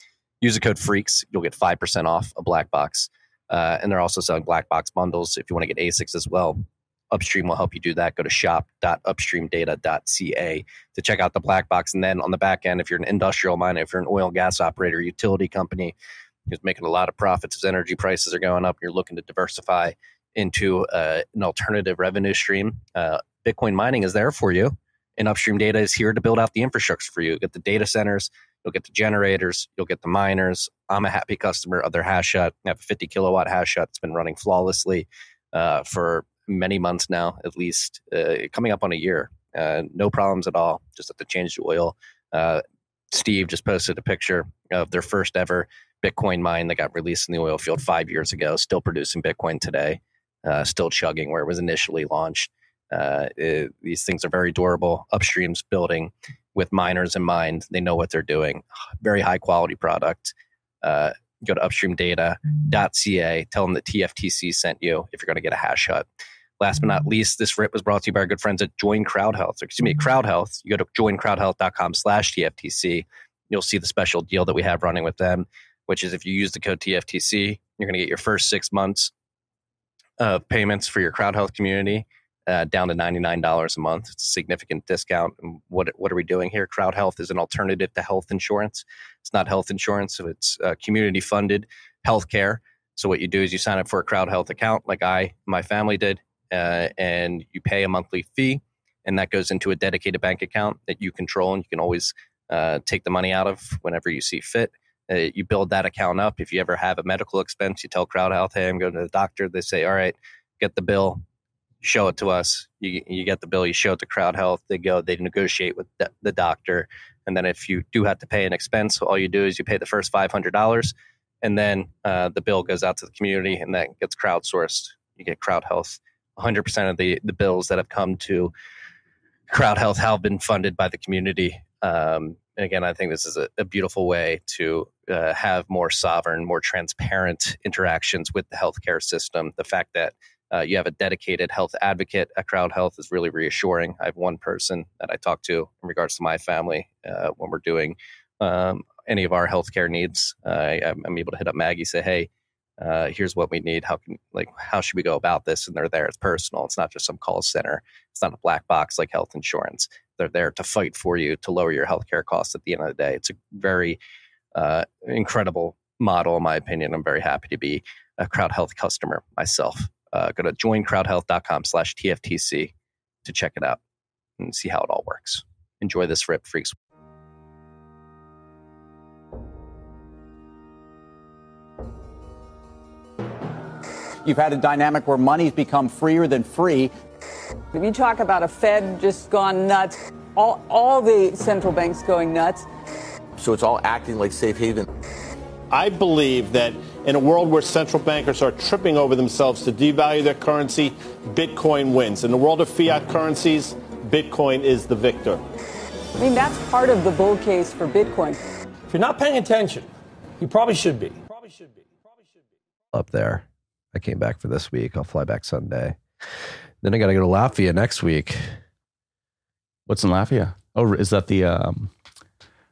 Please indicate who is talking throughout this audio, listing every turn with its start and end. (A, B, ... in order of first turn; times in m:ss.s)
0:00.4-0:16.0 A
0:16.5-1:06.0 A
1:06.6-1:19.1 A
1:20.2-1:51.2 A
1:51.8-2:08.5 A
2:09.5-2:32.3 A
2:32.8-2:44.0 A
2:44.6-2:52.7 A
2:53.2-2:53.8 A
2:54.4-2:56.8 A
3:04.2-3:06.9 B
3:07.7-3:12.7 C
3:13.4-3:14.8 B
3:15.7-3:25.4 D
3:26.2-3:28.4 C
3:28.9-3:31.2 E
3:32.9-3:36.0 F
3:36.8-3:38.6 F
3:39.9-3:41.9 G